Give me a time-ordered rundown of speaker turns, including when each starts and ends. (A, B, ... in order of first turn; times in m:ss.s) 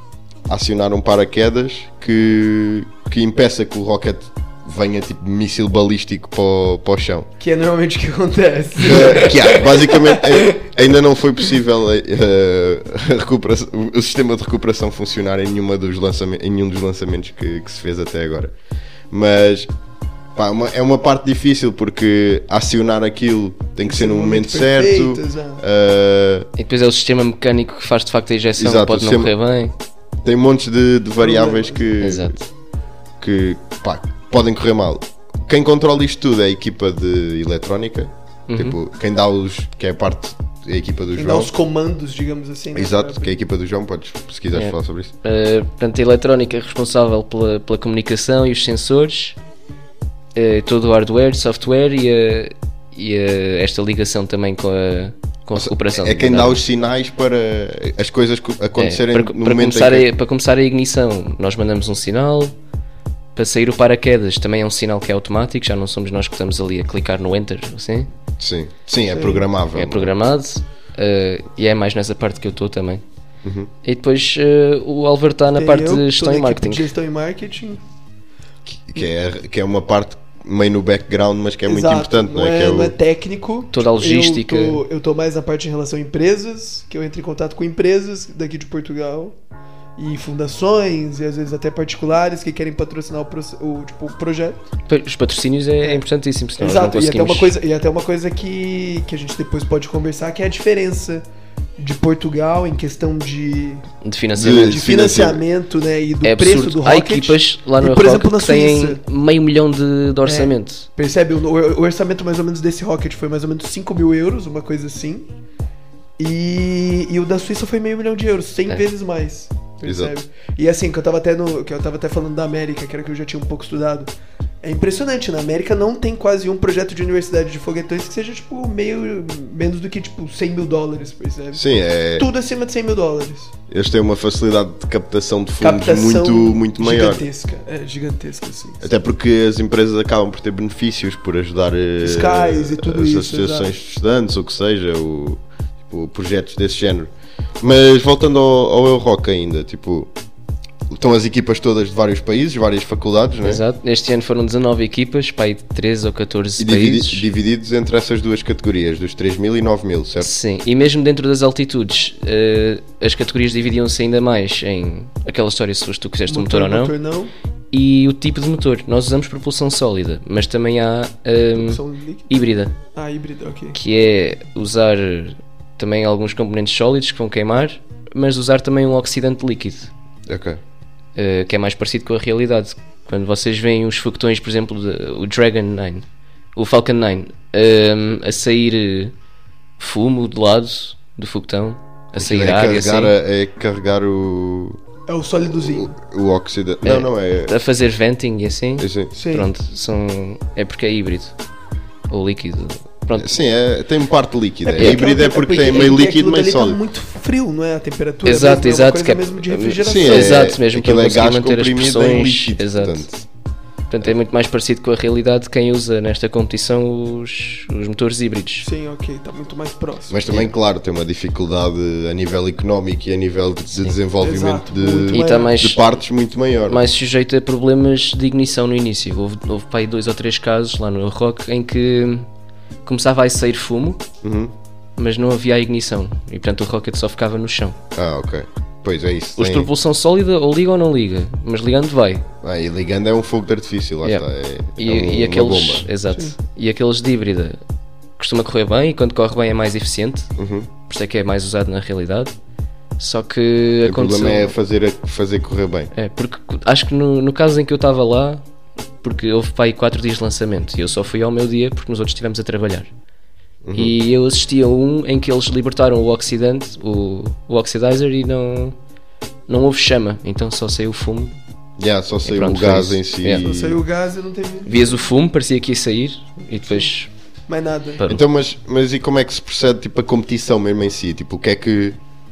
0:00.5-0:07.3 A
0:07.4-0:10.7 B
0:08.8-0:18.6 A
0:19.1-0:19.7 A
0:20.4-0:26.5 A
0:23.8-0:25.6 B
0:26.6-0:29.7 C
0:28.6-0:29.3 A
0:30.2-0:32.4 A
0:31.2-0:31.9 B
0:32.0-0:32.4 C
0:33.2-0:41.5 A
0:38.5-0:38.8 C
0:41.1-0:43.4 B
0:42.8-0:45.1 A
0:44.5-0:49.4 C
0:50.4-0:56.6 C
0:55.6-1:00.1 A
0:58.8-1:02.5 C
1:03.4-1:08.1 C
1:08.4-1:10.1 A
1:09.1-1:09.4 B
1:09.8-1:13.0 C
1:13.4-1:13.7 A
1:13.8-1:16.9 C
1:15.6-1:17.8 B
1:18.7-1:23.0 A
1:21.7-1:29.4 B
1:23.7-1:24.8 C
1:30.0-1:34.6 B
1:34.9-1:37.5 C
1:36.6-1:41.2 B
1:41.8-1:43.9 B
1:44.0-1:44.8 C
1:44.4-1:45.4 A
1:44.4-1:49.0 B
1:46.2-1:50.9 C
1:50.3-1:55.3 B
1:56.2-2:04.1 B
1:59.8-2:00.2 A
2:04.6-2:11.6 B
2:11.5-2:12.3 A
2:12.2-2:13.5 B
2:13.7-2:17.2 A
2:15.6-2:18.9 B
2:18.8-2:30.1 A
2:22.0-2:23.7 B
2:30.9-2:33.6 A
2:33.4-2:37.3 C
2:36.6-2:40.3 A
2:40.2-2:46.9 C
2:46.3-2:47.3 B
2:47.7-2:52.7 C
2:51.6-2:52.3 B
2:53.0-2:53.8 B
2:53.8-2:59.9 C
3:00.3-3:00.6 A
3:01.2-3:09.1 C
3:09.8-3:13.1 C
3:12.2-3:14.8 A
3:15.1-3:15.9 B
3:15.5-3:17.5 A
3:16.8-3:21.4 C
3:18.8-3:19.1 A
3:19.2-3:19.5 B
3:22.1-3:23.3 C
3:23.2-3:26.8 A
3:24.7-3:30.4 B
3:24.8-3:25.0 C
3:28.2-3:33.1 C
3:29.8-3:33.1 A
3:33.9-3:38.7 C
3:38.6-3:40.2 B
3:40.1-3:46.8 A
3:44.2-3:45.6 B
3:45.1-3:45.8 C
3:46.7-3:52.3 C
3:52.8-3:54.0 C
3:54.2-3:54.5 A
3:55.0-3:57.8 C
3:57.9-3:59.7 A
3:59.4-4:02.3 C
4:02.4-4:05.9 A
4:04.8-4:07.6 C
4:08.2-4:10.3 C
4:10.4-4:10.7 A
4:10.9-4:12.3 C
4:13.0-4:14.5 C
4:13.8-4:15.9 A
4:15.9-4:18.4 C
4:19.0-4:22.9 C
4:23.6-4:23.9 A
4:23.8-4:28.8 C
4:29.5-4:31.3 C
4:31.8-4:33.8 A
4:32.2-4:33.4 C
4:33.3-4:35.0 B
4:34.7-4:37.1 C
4:37.5-4:38.0 B
4:38.1-4:42.0 A